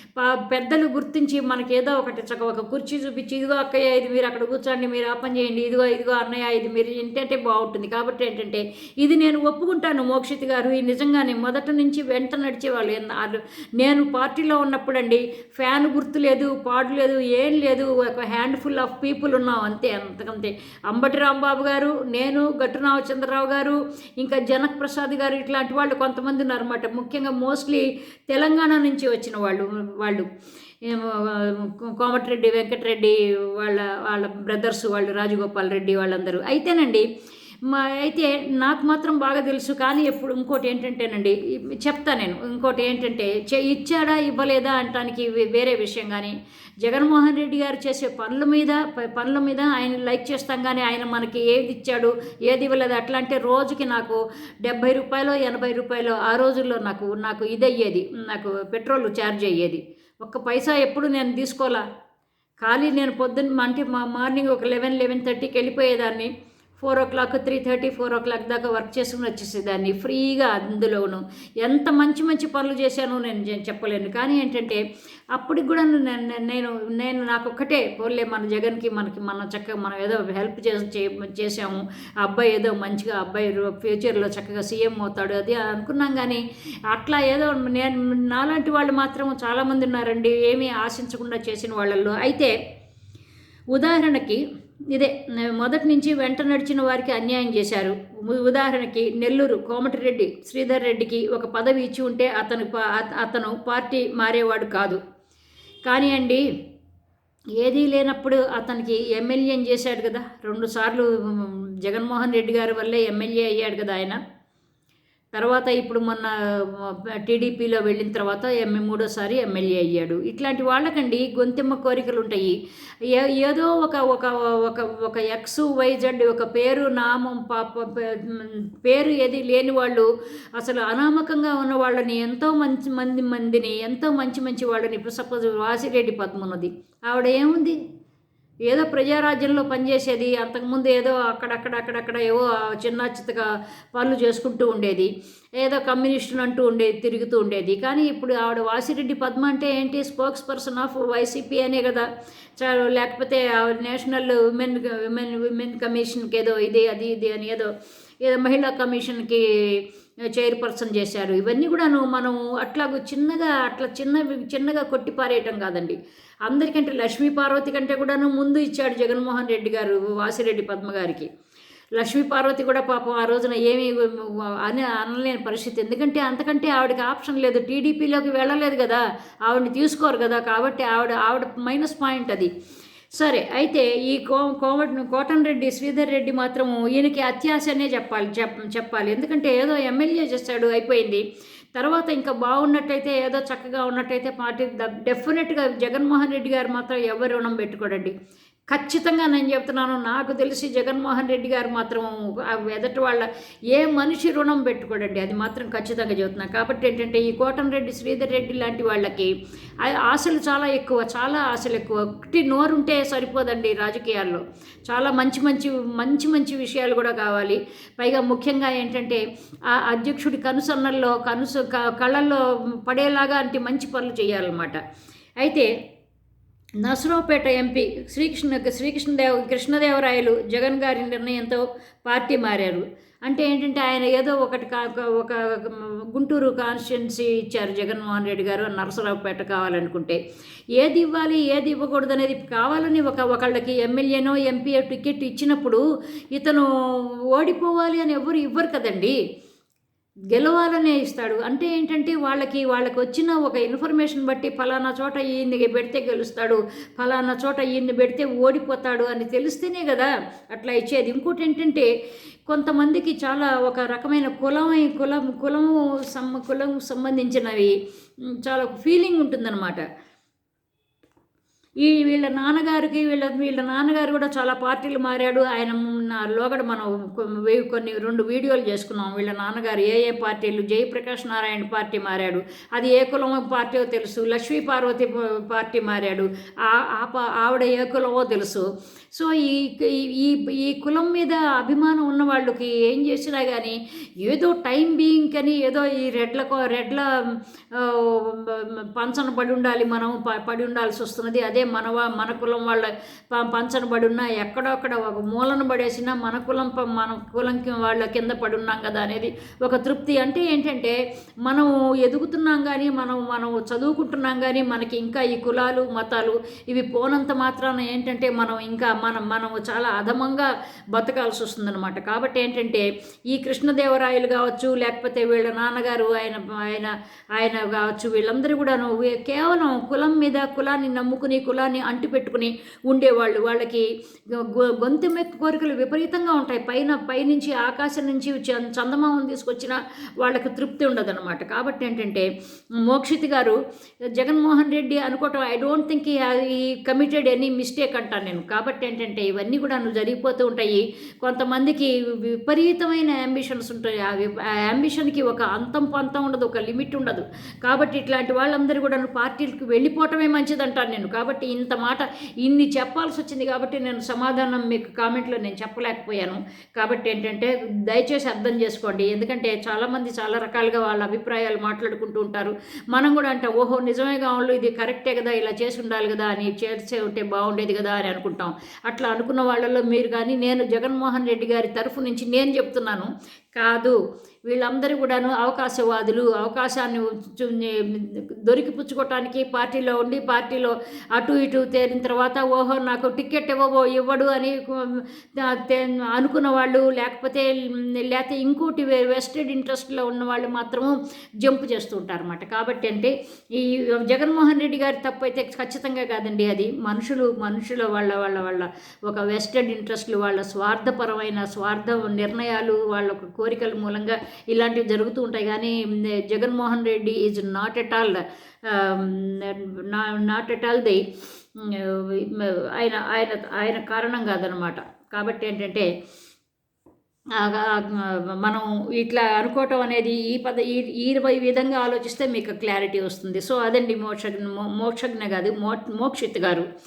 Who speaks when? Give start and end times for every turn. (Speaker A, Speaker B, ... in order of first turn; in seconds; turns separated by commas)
Speaker A: 0.2-30.2, Speaker A: 30.8-37.0, Speaker A: 37.6-61.8, Speaker A: 62.6-74.8, Speaker A: 75.3-92.5, Speaker A: 93.7-94.4, Speaker A: 94.9-105.0, Speaker A: 105.9-106.4, Speaker A: 107.6-114.2, Speaker A: 115.3-137.8, Speaker A: 138.7-152.1, Speaker A: 152.6-157.7, Speaker A: 158.2-159.8, Speaker A: 160.3-171.3, Speaker A: 172.0-182.5, Speaker A: 183.2-191.2, Speaker A: 191.7-198.1, Speaker A: 198.7-224.8, Speaker A: 225.4-225.7, Speaker A: 226.8-240.2, Speaker A: 240.8-245.8, Speaker A: 246.3-246.7, Speaker A: 247.3-249.2, Speaker A: 250.3-261.9, Speaker A: 262.5-267.7, Speaker A: 268.4-269.8, Speaker A: 271.8-297.1, Speaker A: 297.7-310.9, Speaker A: 311.5-342.3, Speaker A: 342.8-343.6, Speaker A: 344.2-421.0, Speaker A: 421.6-425.9, Speaker A: 427.4-436.6